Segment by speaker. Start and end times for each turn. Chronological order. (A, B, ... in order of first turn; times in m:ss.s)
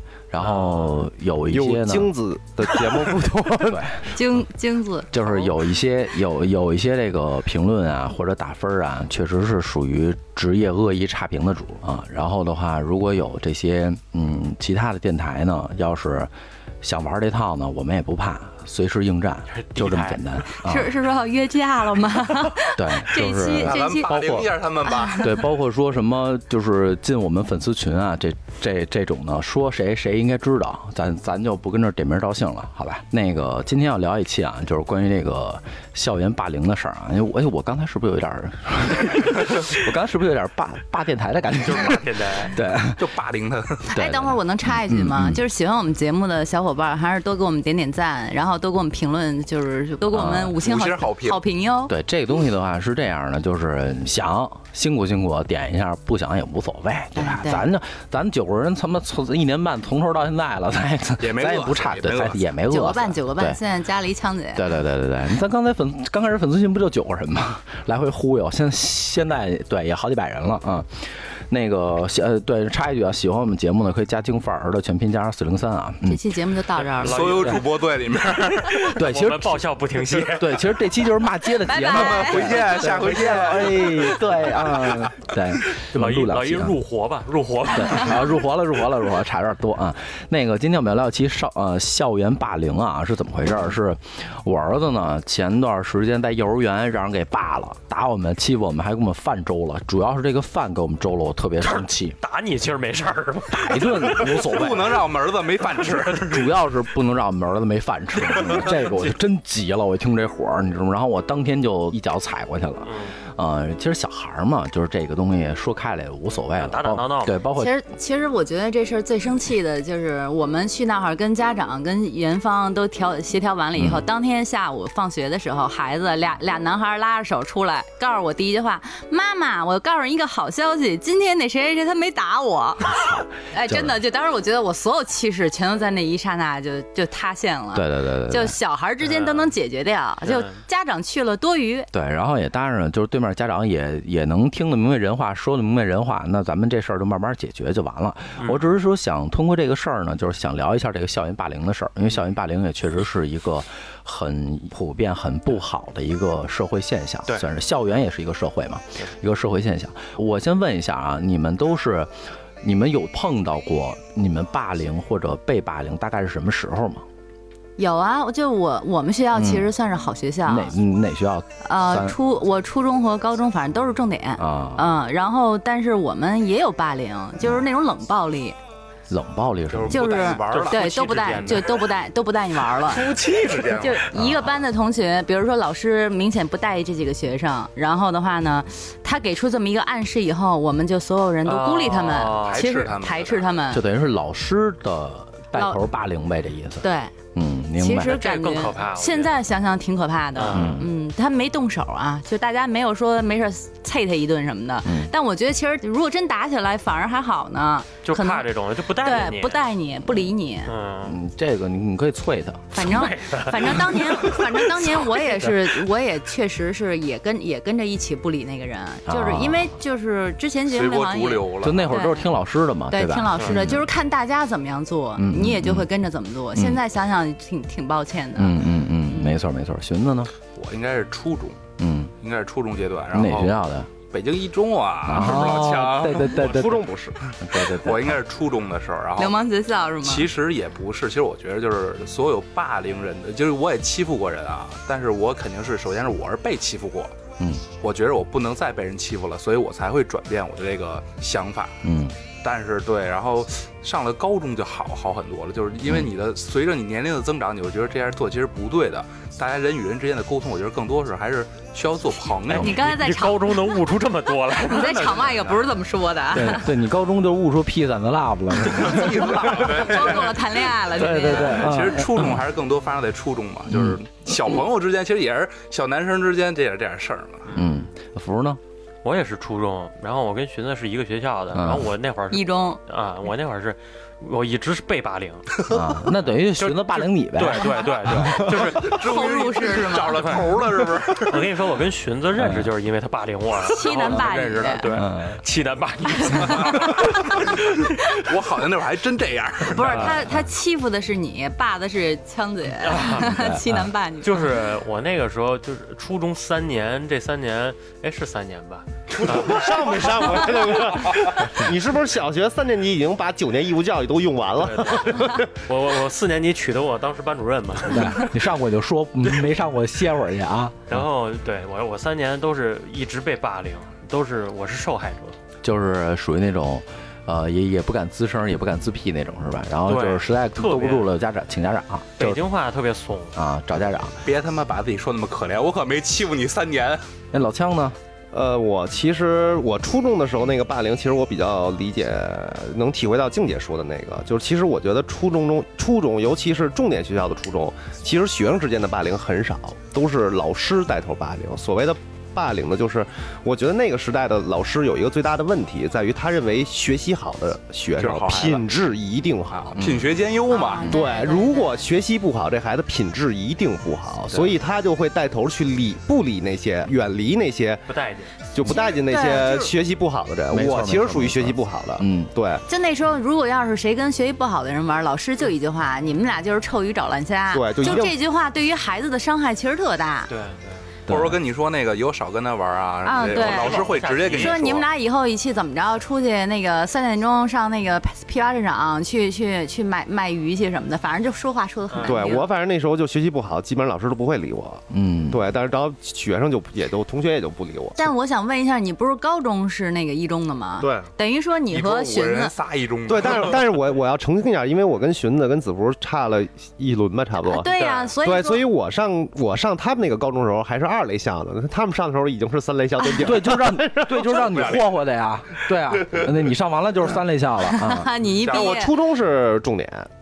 0:00.3-0:02.1 A
0:00.4-0:01.0 B
0:01.5-0:04.0 C
0:03.6-0:04.2 A
0:04.1-0:05.2 D
0:05.1-0:16.3 A
0:16.8-0:20.9 A
0:19.6-0:20.2 B
0:20.5-0:24.1 D
0:22.7-0:24.6 A
0:23.6-0:25.3 E
0:24.8-0:25.2 D
0:25.2-0:43.0 A
0:41.6-0:42.6 B
0:43.0-0:44.0 E
0:43.9-0:51.9 D
0:44.0-0:45.4 A
0:50.1-0:50.6 A
0:50.6-0:51.4 E
0:51.9-1:03.6 A
0:57.1-0:57.7 D
1:01.2-1:02.4 E
1:02.7-1:04.7 D
1:04.6-1:16.2 A
1:16.0-1:17.4 D
1:17.0-1:17.6 B
1:17.0-1:19.0 E
1:18.6-1:20.6 B
1:18.9-1:19.6 A
1:20.3-1:26.8 A
1:21.5-1:22.7 D
1:21.9-1:24.3 E
1:25.7-1:28.4 B
1:27.7-1:42.2 A
1:41.6-1:44.2 B
1:43.5-1:45.0 A
1:44.4-1:46.4 E
1:46.2-1:57.7 A
1:48.4-1:49.1 B
1:52.8-1:53.2 B
1:56.6-1:57.4 B
1:57.6-2:21.9 D
2:03.8-2:04.0 A
2:12.9-2:14.0 A
2:17.7-2:18.6 A
2:19.1-2:19.5 B
2:21.9-2:47.0 A
2:47.8-2:50.8 D
2:49.3-2:49.7 A
2:50.4-2:52.2 A
2:51.6-2:58.6 D
2:54.4-2:54.9 A
2:59.1-3:00.2 A
2:59.7-3:01.6 E
2:59.9-3:03.2 D
3:00.4-3:01.8 B
3:02.8-3:04.1 E
3:03.7-3:13.8 D
3:04.1-3:04.5 A
3:11.4-3:12.6 B
3:12.3-3:13.6 E
3:13.7-3:18.2 A
3:15.6-3:15.8 D
3:16.8-3:17.1 D
3:17.8-3:30.7 D
3:18.0-3:19.4 B
3:20.4-3:20.8 B
3:20.5-3:20.9 A
3:24.8-3:25.1 A
3:28.0-3:29.6 B
3:30.6-3:31.2 B
3:31.0-3:32.8 A
3:32.7-3:42.3 D
3:32.8-3:35.6 B
3:39.1-3:39.7 A
3:40.7-3:42.0 E
3:41.6-3:43.9 A
3:42.9-3:49.3 D
3:45.2-3:45.9 A
3:46.6-3:46.8 A
3:48.4-3:50.3 A
3:50.4-3:51.6 E
3:51.8-3:52.1 A
3:52.2-3:56.7 E
3:53.1-3:53.9 A
3:55.0-3:58.2 A
3:56.3-3:57.2 C
3:57.5-3:59.4 E
3:59.2-4:00.3 D
4:00.0-4:07.1 E
4:07.4-4:07.6 A
4:07.7-4:11.8 E
4:11.8-4:12.2 A
4:12.4-4:22.8 E
4:22.5-4:25.7 B
4:22.5-4:23.8 D
4:24.5-4:26.7 D
4:26.3-4:29.7 A
4:28.7-4:37.5 E
4:28.8-4:31.8 D
4:31.0-4:32.4 A
4:33.7-4:34.0 A
4:37.5-4:37.8 B
4:37.5-4:38.6 A
4:39.0-4:45.5 B
4:41.5-4:41.9 A
4:42.3-4:42.8 D
4:45.7-4:47.8 A
4:46.6-4:49.0 B
4:48.3-4:51.4 E
4:48.8-4:50.3 D
4:50.1-4:50.6 B
4:51.2-4:57.8 B
4:52.4-4:52.7 A
4:53.6-4:54.8 D
4:53.9-4:55.0 E
4:55.0-4:55.4 A
4:56.2-4:57.2 D
4:58.0-5:00.1 E
4:59.7-5:04.4 D
4:59.8-5:00.1 B
5:02.8-5:03.3 B
5:03.2-5:03.9 A
5:04.2-5:09.6 B
5:09.2-5:15.5 C
5:10.2-5:10.4 B
5:14.6-5:18.3 B
5:17.9-5:21.0 A
5:20.9-5:25.3 B
5:25.6-5:32.4 A
5:29.9-5:31.1 B
5:32.2-5:33.3 B
5:33.3-5:34.2 A
5:34.2-5:37.1 E
5:37.3-5:38.0 A
5:38.3-5:59.8 C
5:58.0-5:58.6 E
5:59.5-6:00.9 E
5:59.8-6:00.1 A
6:00.5-6:01.7 D
6:00.9-6:07.9 C
6:07.9-6:08.3 B
6:08.5-6:12.6 C
6:08.6-6:09.7 D
6:10.5-6:12.3 A
6:12.6-6:20.3 D
6:17.5-6:18.2 C
6:20.3-6:20.8 B
6:21.1-6:24.8 E
6:21.1-6:21.4 A
6:23.0-6:32.5 D
6:23.2-6:24.6 B
6:31.9-6:32.2 B
6:32.0-6:38.1 C
6:34.9-6:35.4 A
6:38.0-6:42.5 D
6:40.8-6:41.1 C
6:41.7-6:43.8 E
6:43.1-6:54.3 C
6:47.4-6:48.6 D
6:47.8-6:48.1 B
6:53.2-6:58.1 A
6:54.4-6:54.9 E
6:57.6-6:58.9 D
6:58.4-6:58.7 E
6:58.4-7:00.1 C